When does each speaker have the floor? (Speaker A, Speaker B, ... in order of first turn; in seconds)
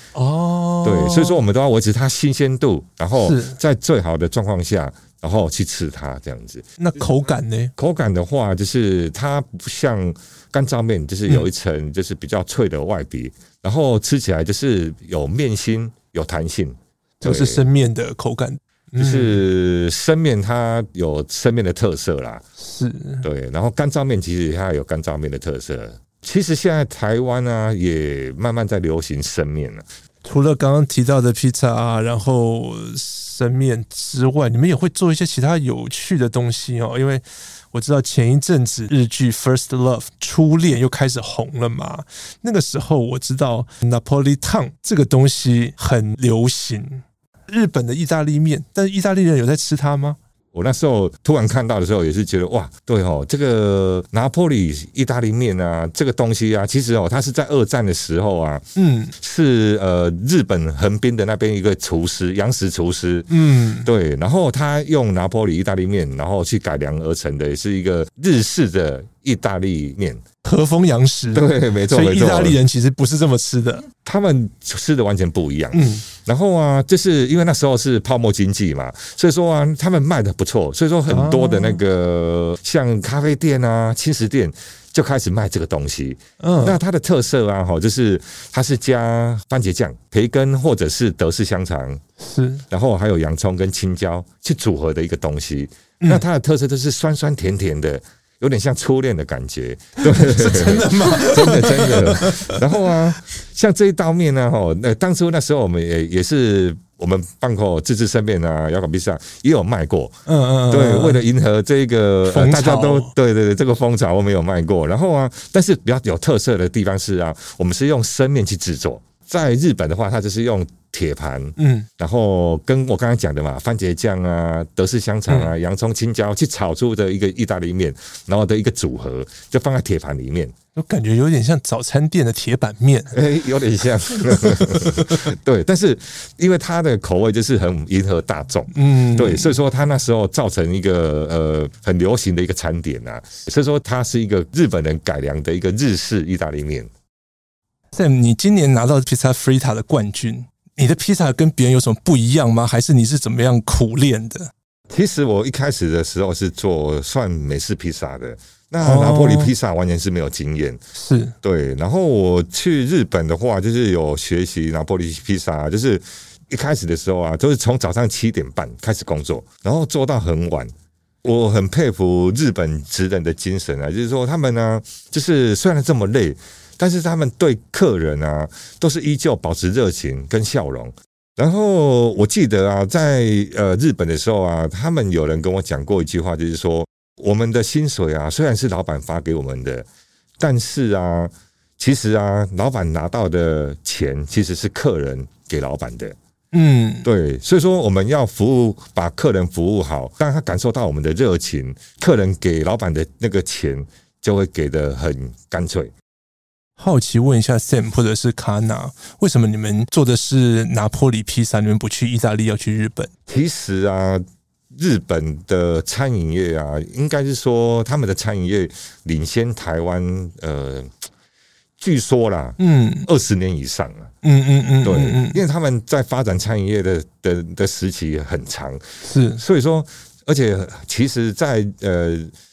Speaker A: 0.1-1.4, 3.2-3.6, 6.8-7.7, 17.2-19.4, 22.6-23.2, 30.2-50.2, 58.8-59.1, 63.3-63.9, 70.4-73.8, 75.7-76.0, 81.1-81.8, 86.4-86.8, 92.2-92.6, 100.0-103.0, 110.2-111.2, 112.2-113.1, 121.6-121.9, 130.8-133.2, 134.3-135.2, 138.7-139.5, 147.9-154.5, 158.8-159.5, 160.9-161.3, 196.5-197.1, 206.8-213.1, 222.6-223.1, 224.2-225.4, 229.0-229.4
Speaker B: 0.8-6.6, 7.8-17.6, 19.0-22.4, 23.2-29.9, 50.5-58.6, 59.2-70.2, 71.3-72.6, 74.0-92.0, 92.7-110.1, 110.7-130.5, 133.1-146.9, 154.9-160.8, 161.4-170.7, 171.2-189.8, 190.4-196.2, 197.0-205.9, 213.3-221.1, 221.8-224.1, 224.8-232.3